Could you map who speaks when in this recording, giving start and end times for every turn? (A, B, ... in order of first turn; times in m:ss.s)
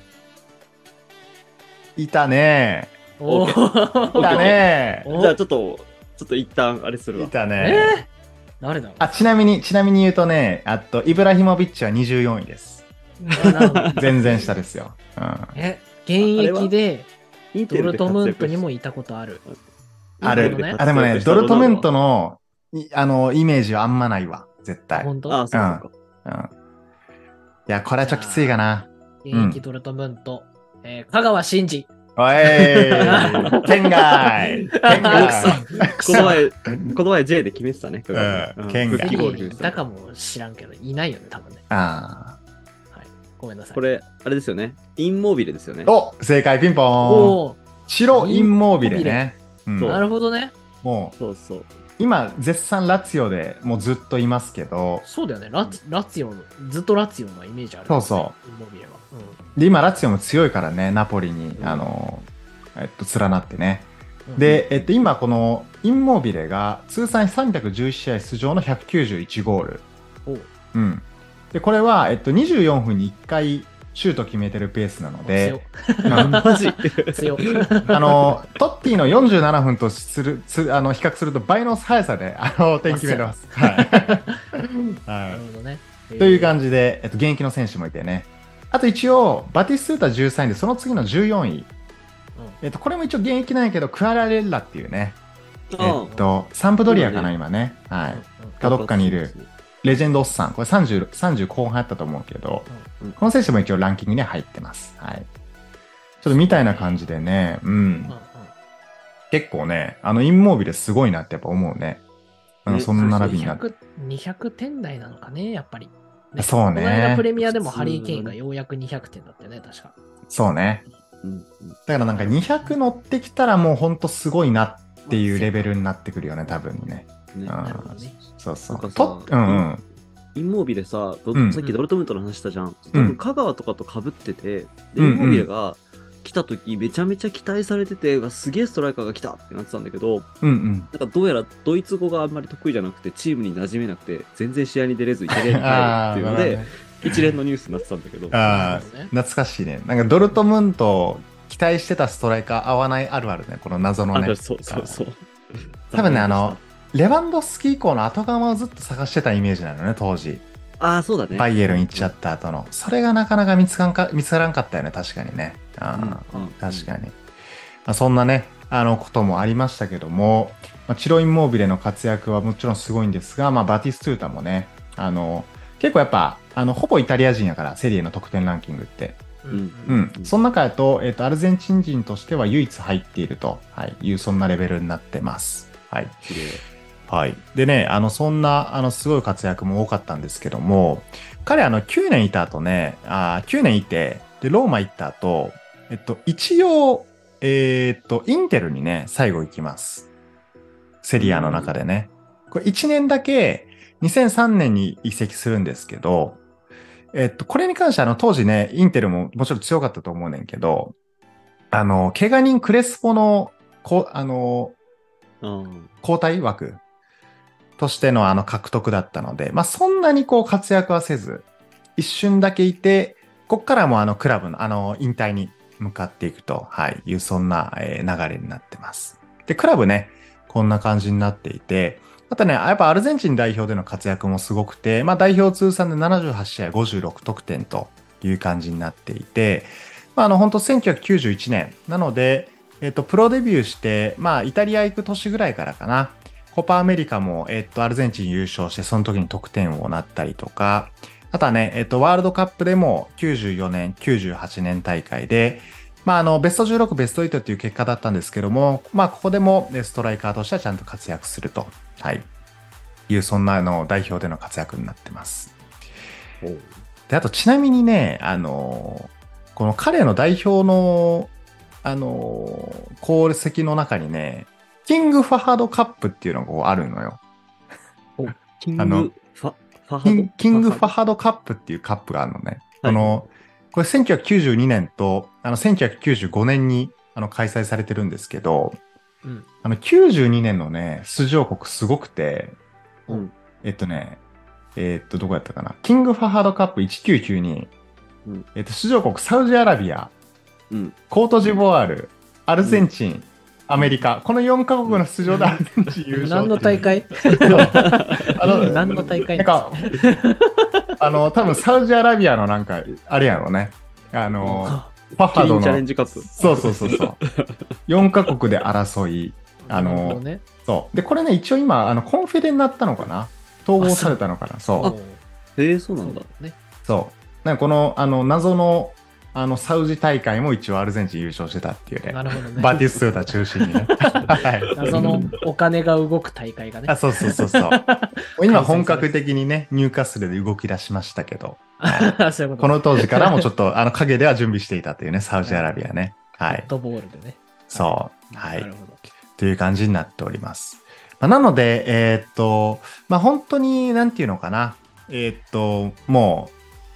0:02.0-0:03.0 A
0:03.2-0:05.4 B
0:03.2-0:07.3 C
0:04.2-0:05.1 A
0:07.1-0:08.0 A
0:07.6-0:08.1 B
0:08.6-0:09.1 B
0:09.0-0:12.8 A
0:13.2-0:14.4 B
0:13.4-0:14.3 C
0:13.9-0:15.5 A
0:15.5-0:17.1 B
0:16.2-0:16.7 C
0:17.5-0:18.6 C
0:17.7-0:19.4 B
0:20.2-0:21.9 C
0:20.2-0:26.5 A
0:20.2-0:20.8 B
0:24.9-0:25.4 B
0:25.3-0:25.9 C
0:27.7-0:29.6 A
0:28.0-0:28.6 B
0:29.2-0:31.9 B
0:32.2-0:36.9 A
0:32.4-0:36.4 B
0:32.8-0:33.6 C
0:34.4-0:39.8 C
0:38.1-0:39.3 A
0:38.9-0:41.6 B
0:41.7-0:42.4 A
0:42.9-0:43.8 B
0:43.7-0:45.9 C
0:45.8-0:50.0 A
0:47.0-0:49.2 B
0:49.8-0:50.0 C
0:49.9-0:50.5 B
0:50.8-0:51.1 A
0:51.2-0:51.7 C
0:52.0-0:55.0 A
0:55.0-0:59.4 B
0:57.9-0:58.3 A
0:59.6-1:09.8 A
1:01.6-1:01.8 C
1:04.3-1:04.6 B
1:10.7-1:16.4 A
1:15.2-1:18.3 B
1:16.1-1:18.3 C
1:17.9-1:25.4 A
1:22.8-1:24.4 B
1:25.3-1:26.5 B
1:26.2-1:31.7 A
1:32.6-1:35.2 A
1:35.7-1:36.1 C
1:35.8-1:39.3 A
1:36.0-1:36.3 B
1:36.9-1:37.3 C
1:38.1-1:38.6 B
1:38.6-1:39.5 C
1:39.8-1:45.3 A
1:46.2-1:48.1 A
1:46.2-1:47.0 B
1:48.1-1:48.5 B
1:49.3-1:52.0 A
1:52.6-1:53.6 A
1:52.7-1:53.4 C
1:52.9-1:59.9 B
1:56.4-1:57.3 A
1:57.7-1:58.4 C
2:00.3-2:00.8 A
2:01.2-2:01.8 C
2:01.9-2:09.8 A
2:02.2-2:02.8 B
2:05.0-2:05.8 B
2:07.3-2:07.6 C
2:07.6-2:08.2 B
2:08.7-2:09.7 C
2:10.3-2:20.3 C
2:11.3-2:11.6 A
2:12.9-2:13.2 A
2:15.0-2:15.5 A
2:20.4-2:20.9 A
2:20.9-2:28.8 C
2:25.3-2:27.3 A
2:28.3-2:35.0 A
2:28.4-2:29.1 B
2:34.1-2:36.6 C
2:35.9-2:40.4 A
2:40.8-2:42.1 C
2:41.3-2:47.2 A
2:45.9-2:46.9 C
2:47.8-2:59.2 A
2:59.4-3:00.0 B
2:59.5-3:00.3 C
2:59.9-3:06.3 A
3:06.3-3:06.6 C
3:07.1-3:20.1 A
3:21.0-3:26.4 A
3:21.2-3:21.7 C
3:27.1-3:30.9 A
3:31.7-3:34.8 A
3:35.4-3:35.9 C
3:36.0-3:36.8 A
3:37.8-4:22.3 A
4:23.1-4:25.5 A
4:26.4-4:26.8 C
4:27.1-4:31.3 A
4:31.8-4:37.2 A
4:38.6-4:40.9 C
4:38.8-4:39.1 A
4:40.0-4:48.8 A
4:42.8-4:43.2 C
4:49.6-4:52.6 A
4:53.6-4:54.2 A
4:54.8-4:57.7 A
4:58.5-5:00.1 A
5:00.7-5:01.0 C
5:01.1-5:06.9 A
5:02.6-5:02.9 C
5:04.8-5:05.6 C
5:06.1-5:11.0 B
5:07.3-5:09.0 C
5:07.4-5:09.8 A
5:11.0-5:17.2 A
5:14.4-5:14.9 B
5:15.3-5:17.6 C
5:16.4-5:16.9 B
5:17.9-5:24.9 A
5:19.6-5:20.4 B
5:23.8-5:24.2 B
5:24.8-5:25.2 B
5:25.6-5:26.3 C
5:26.0-5:26.6 B
5:26.8-5:35.3 A
5:32.1-5:33.3 B
5:34.6-5:35.3 C
5:34.7-5:39.1 B
5:36.9-5:37.8 A
5:38.4-5:46.6 A
5:41.8-5:43.5 B
5:46.5-5:49.0 B
5:47.7-5:48.7 A
5:49.4-5:56.5 A